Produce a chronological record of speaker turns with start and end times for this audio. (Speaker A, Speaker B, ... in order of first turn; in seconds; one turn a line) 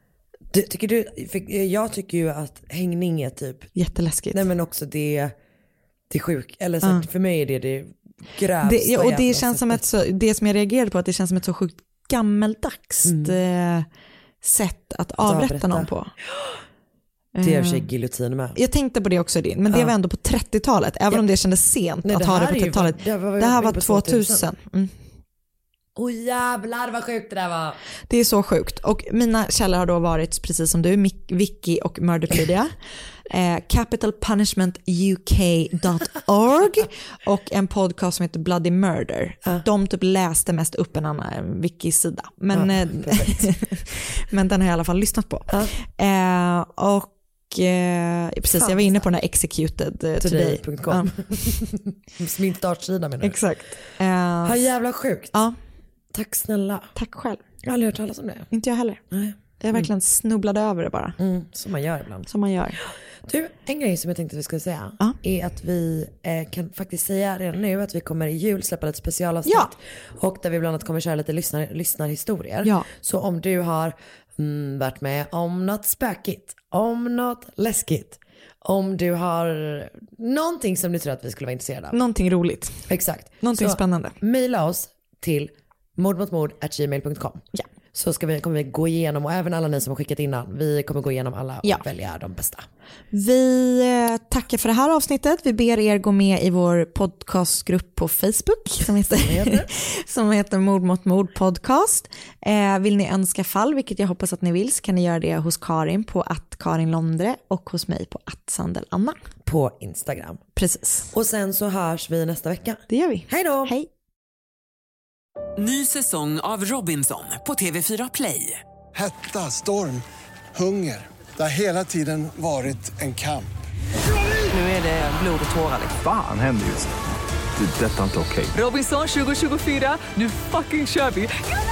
Speaker A: 0.5-3.7
Speaker B: 3.8-4.5
Speaker A: 4.3-5.3
Speaker A: 6.1-9.8
Speaker B: 8.6-13.9
Speaker A: 13.1-13.4
Speaker B: 14.4-16.1
Speaker A: 15.2-15.9
Speaker B: 17.4-17.9
Speaker A: 17.4-18.6
Speaker B: 18.6-25.0
Speaker A: 22.0-24.5
Speaker A: 25.9-27.8
Speaker B: 28.1-32.8
Speaker B: 33.3-51.6
Speaker A: 42.5-43.5
Speaker A: 48.5-49.1
Speaker A: 50.2-53.4
Speaker B: 53.2-54.6
Speaker A: 54.4-55.3
Speaker A: 56.1-56.9
Speaker B: 57.0-57.4
Speaker A: 57.6-58.5
Speaker B: 58.5-59.0
Speaker A: 59.1-59.9
Speaker B: 59.6-61.2
Speaker A: 61.2-82.0
Speaker B: 62.3-62.8
Speaker B: 69.5-69.7
Speaker B: 81.9-82.9
Speaker A: 82.9-92.7
Speaker B: 83.4-84.2
Speaker B: 93.1-109.2
Speaker A: 99.1-99.7
Speaker A: 109.5-110.4
Speaker B: 110.6-111.1
Speaker A: 111.1-113.7
Speaker B: 112.9-113.9
Speaker C: 115.6-118.6
Speaker D: 118.9-120.0
Speaker D: 120.5-123.5
Speaker C: 124.5-125.9
Speaker E: 126.0-127.0
Speaker E: 127.6-128.5
Speaker C: 128.5-131.3